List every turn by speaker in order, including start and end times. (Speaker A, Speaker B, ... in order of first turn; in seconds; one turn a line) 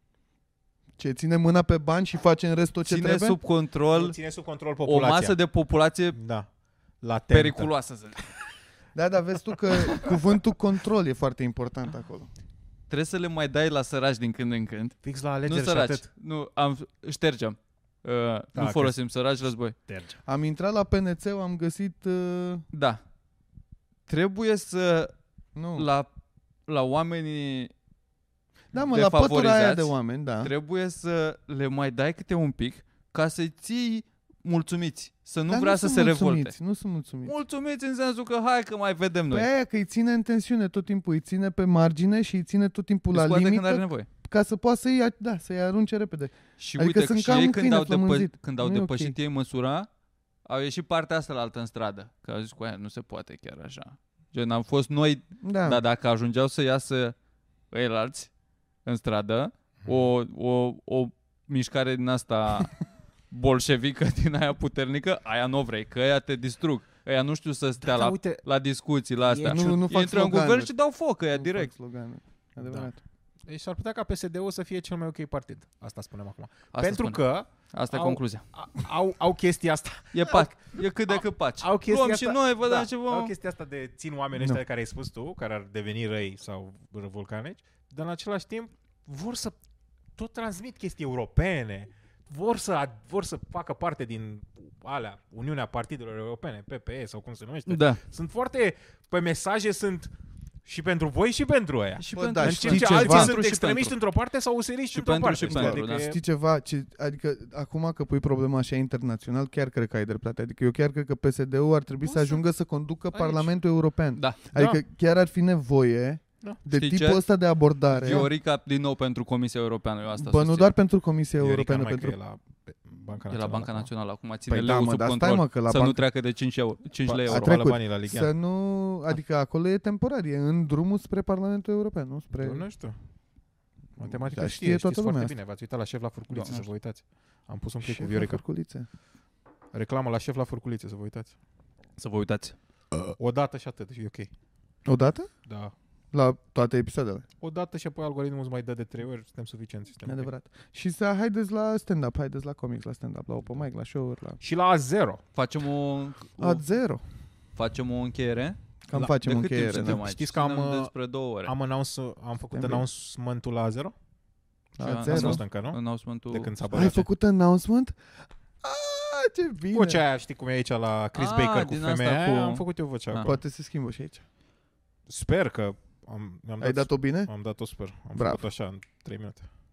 Speaker A: 1.0-3.4
Speaker B: 2.8-4.2
Speaker C: 3.9-5.4
Speaker B: 4.8-6.2
Speaker C: 6.1-6.5
Speaker C: 7.0-7.7
Speaker B: 7.3-8.2
Speaker A: 8.9-12.3
Speaker B: 12.9-19.8
Speaker C: 15.0-16.1
Speaker C: 18.5-18.9
Speaker C: 19.8-20.2
Speaker A: 20.3-22.6
Speaker B: 22.7-23.0
Speaker B: 24.1-25.1
Speaker A: 25.5-25.9
Speaker B: 25.7-26.1
Speaker B: 26.7-27.7
Speaker A: 28.7-30.5
Speaker B: 28.8-36.5
Speaker A: 35.5-37.3
Speaker B: 37.2-39.5
Speaker A: 39.3-49.1
Speaker B: 43.1-44.1
Speaker B: 46.6-49.9
Speaker B: 50.4-57.1
Speaker A: 55.4-55.8
Speaker B: 57.7-58.3
Speaker B: 58.8-62.8
Speaker B: 63.3-71.7
Speaker C: 67.8-68.4
Speaker C: 69.2-69.8
Speaker A: 69.5-70.7
Speaker A: 71.3-73.0
Speaker C: 72.6-72.9
Speaker C: 73.5-89.5
Speaker B: 76.7-78.4
Speaker B: 80.1-83.3
Speaker A: 84.3-84.6
Speaker C: 90.2-100.1
Speaker B: 97.7-98.0
Speaker C: 100.6-106.2
Speaker B: 102.0-103.9
Speaker A: 102.1-103.3
Speaker B: 104.9-106.1
Speaker A: 105.5-118.3
Speaker C: 112.0-112.4
Speaker C: 113.1-113.5
Speaker C: 114.5-114.8
Speaker B: 116.7-117.2
Speaker B: 117.9-120.7
Speaker C: 118.0-118.3
Speaker A: 120.2-122.2
Speaker C: 121.4-123.9
Speaker B: 123.3-127.6
Speaker A: 124.5-126.0
Speaker C: 127.0-128.3
Speaker A: 127.3-132.6
Speaker C: 132.4-132.9
Speaker C: 134.0-138.4
Speaker A: 134.0-135.3
Speaker B: 136.3-136.7
Speaker A: 137.8-138.9
Speaker C: 139.7-141.3
Speaker B: 142.0-142.6
Speaker C: 143.1-144.3
Speaker A: 144.8-145.3
Speaker C: 145.5-145.7
Speaker A: 146.1-147.2
Speaker C: 147.4-150.3
Speaker A: 150.1-154.4
Speaker C: 154.4-155.2
Speaker B: 155.3-156.6
Speaker A: 156.4-157.0
Speaker B: 157.6-158.6
Speaker A: 158.9-160.0
Speaker C: 158.9-160.9
Speaker B: 159.1-161.5
Speaker C: 161.4-163.9
Speaker A: 162.5-162.8
Speaker A: 164.7-165.4
Speaker B: 164.8-167.0
Speaker C: 165.1-165.8
Speaker C: 166.3-167.0
Speaker A: 166.7-168.0
Speaker A: 168.6-170.0
Speaker C: 169.7-173.4
Speaker B: 171.1-173.3
Speaker A: 173.2-174.2
Speaker C: 175.1-179.5
Speaker A: 176.6-177.3
Speaker A: 178.1-178.4